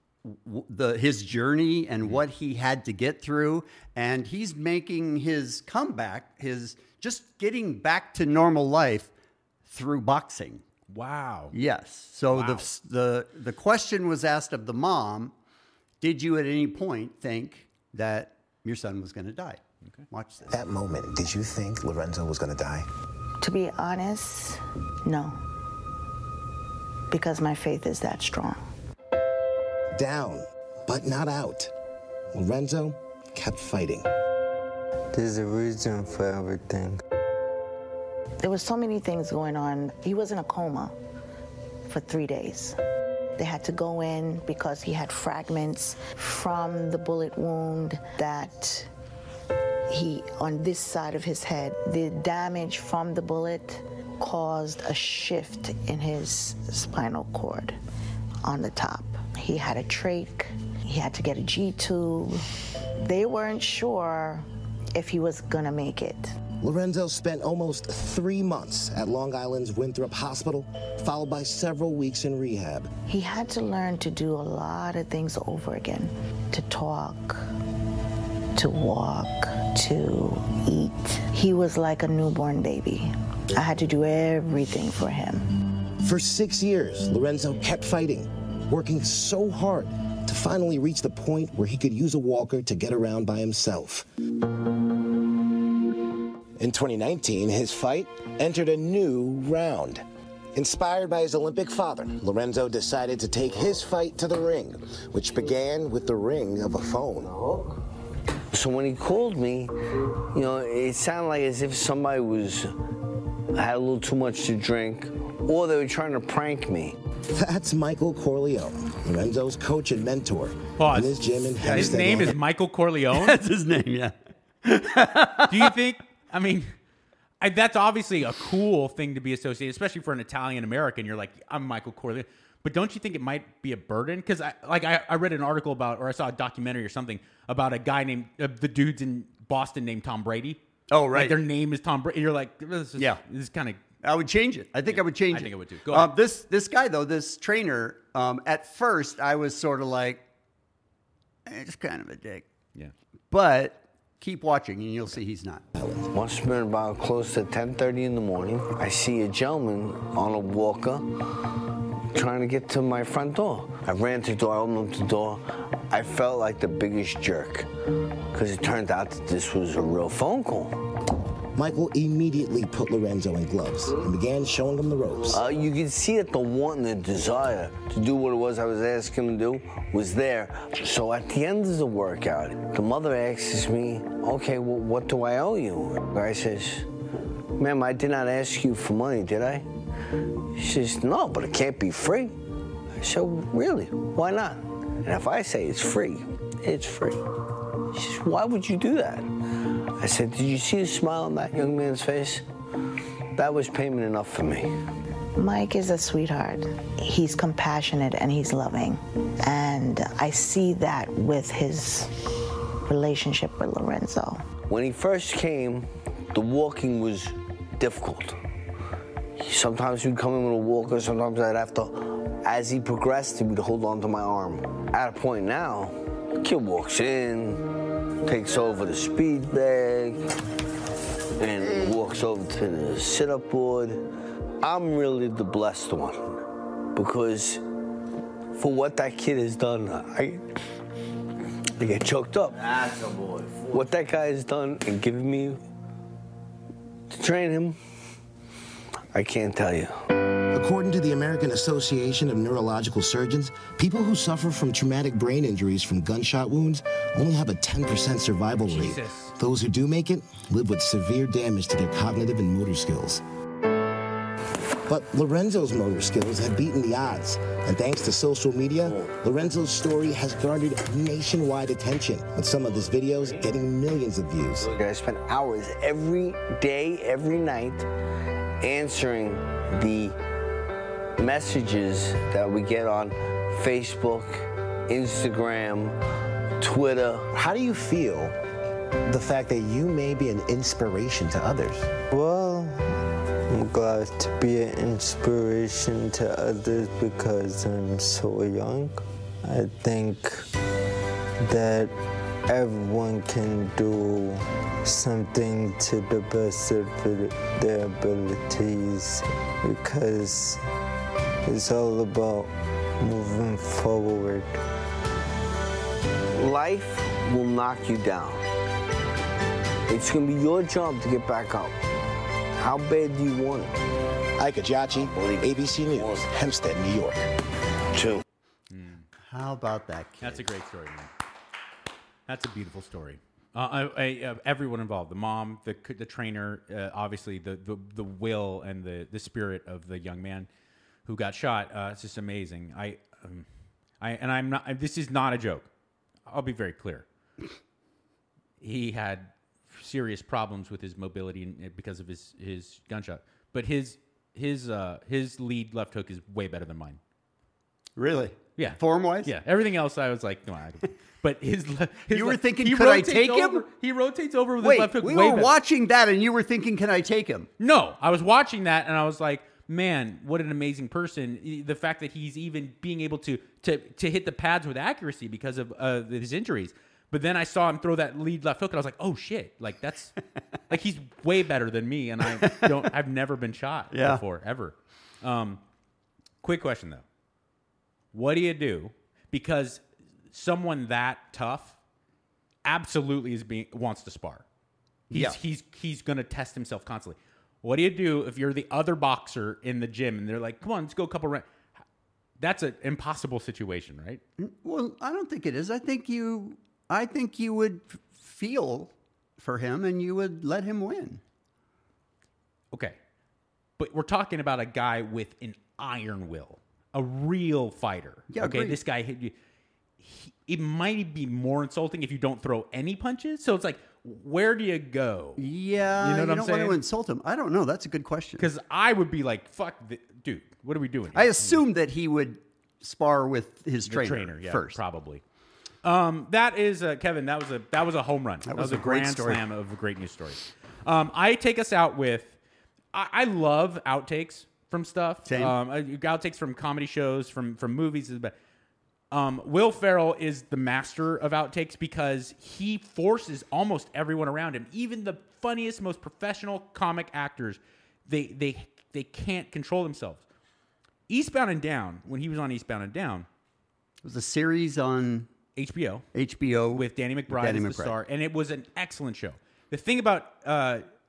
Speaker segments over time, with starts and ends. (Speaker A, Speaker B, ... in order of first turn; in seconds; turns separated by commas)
Speaker A: 0.2-9.1, Speaker A: 9.7-10.6, Speaker B: 10.9-11.5, Speaker A: 11.5-15.3, Speaker B: 12.3-12.7, Speaker A: 16.0-20.5, Speaker C: 20.5-22.9, Speaker D: 23.4-25.4, Speaker D: 27.1-28.6, Speaker C: 29.9-31.7, Speaker C: 32.3-34.1, Speaker E: 35.1-37.0, Speaker D: 38.4-41.0, Speaker D: 41.9-42.8, Speaker D: 43.4-48.9, Speaker D: 49.9-57.8, Speaker D: 58.4-62.4, Speaker D: 63.0-66.4, Speaker C: 66.6-72.9, Speaker D: 73.0-77.5, Speaker D: 78.5-85.5, Speaker C: 86.0-94.0, Speaker C: 96.6-100.0, Speaker C: 100.5-107.4, Speaker F: 108.5-109.7, Speaker F: 110.3-112.7, Speaker F: 113.5-117.0, Speaker C: 117.3-122.4, Speaker B: 120.8-123.4, Speaker A: 121.6-122.1, Speaker A: 123.1-125.7, Speaker B: 125.5-126.7, Speaker B: 127.4-140.6, Speaker A: 140.9-141.4, Speaker B: 141.1-143.8, Speaker A: 144.0-150.2, Speaker B: 144.9-146.1, Speaker A: 151.4-152.5, Speaker A: 153.3-155.6, Speaker C: 155.8-156.1, Speaker F: 156.1-161.2, Speaker F: 162.1-167.7, Speaker F: 168.3-170.8, Speaker C: 171.5-175.4, Speaker F: 175.3-186.9, Speaker F: 187.6-189.7, Speaker F: 190.5-192.4, Speaker F: 193.0-197.2, Speaker F: 197.9-199.3, Speaker F: 200.0-202.4, Speaker F: 203.3-204.7, Speaker D: 205.3-212.3, Speaker D: 212.8-214.4, Speaker F: 214.7-218.4, Speaker F: 219.4-227.6, Speaker F: 228.2-230.2, Speaker F: 231.4-234.0, Speaker F: 234.6-236.4, Speaker F: 236.9-237.6, Speaker F: 238.5-240.4, Speaker F: 241.8-242.9, Speaker F: 243.6-245.6, Speaker F: 247.1-247.8, Speaker F: 249.1-249.9, Speaker C: 250.5-263.2, Speaker B: 258.6-259.3, Speaker C: 264.9-274.7, Speaker F: 274.7-277.9, Speaker F: 278.6-280.1, Speaker F: 281.2-285.9, Speaker F: 286.6-287.3, Speaker C: 287.3-288.3, Speaker C: 289.0-291.9, Speaker E: 292.1-292.9, Speaker E: 293.5-300.5, Speaker E: 301.4-301.9, Speaker E: 302.5-310.6, Speaker E: 311.4-314.5, Speaker F: 316.3-318.4, Speaker F: 319.9-321.7, Speaker F: 322.6-323.7, Speaker C: 324.4-327.2, Speaker F: 324.9-326.2, Speaker F: 327.9-328.2, Speaker B: 328.7-329.1, Speaker A: 329.3-330.4, Speaker B: 330.2-331.1, Speaker B: 332.3-340.5, Speaker B: 341.1-343.5, Speaker B: 344.0-345.7, Speaker B: 346.3-347.1, Speaker B: 348.6-357.0, Speaker A: 358.0-359.3, Speaker B: 358.6-365.5, Speaker A: 362.1-363.6, Speaker A: 364.6-367.5, Speaker B: 367.6-380.1, Speaker B: 380.7-385.6, Speaker A: 382.3-382.8, Speaker A: 383.9-384.2, Speaker B: 386.4-387.0, Speaker B: 388.1-391.8, Speaker B: 392.6-394.4, Speaker A: 395.1-395.4, Speaker B: 395.1-401.5, Speaker B: 402.4-404.2, Speaker A: 404.4-411.2, Speaker B: 412.7-413.0, Speaker B: 413.8-419.3, Speaker A: 418.3-418.8, Speaker B: 420.0-425.4, Speaker A: 425.4-428.5, Speaker B: 426.0-426.8, Speaker B: 428.4-431.6, Speaker A: 431.1-434.8, Speaker B: 433.8-435.2, Speaker B: 435.8-442.4, Speaker A: 438.5-439.4, Speaker B: 442.9-448.3, Speaker A: 445.3-445.6, Speaker B: 449.1-460.2, Speaker B: 461.1-463.3, Speaker A: 464.0-465.3, Speaker B: 465.6-466.1, Speaker A: 466.1-467.9, Speaker B: 466.7-470.8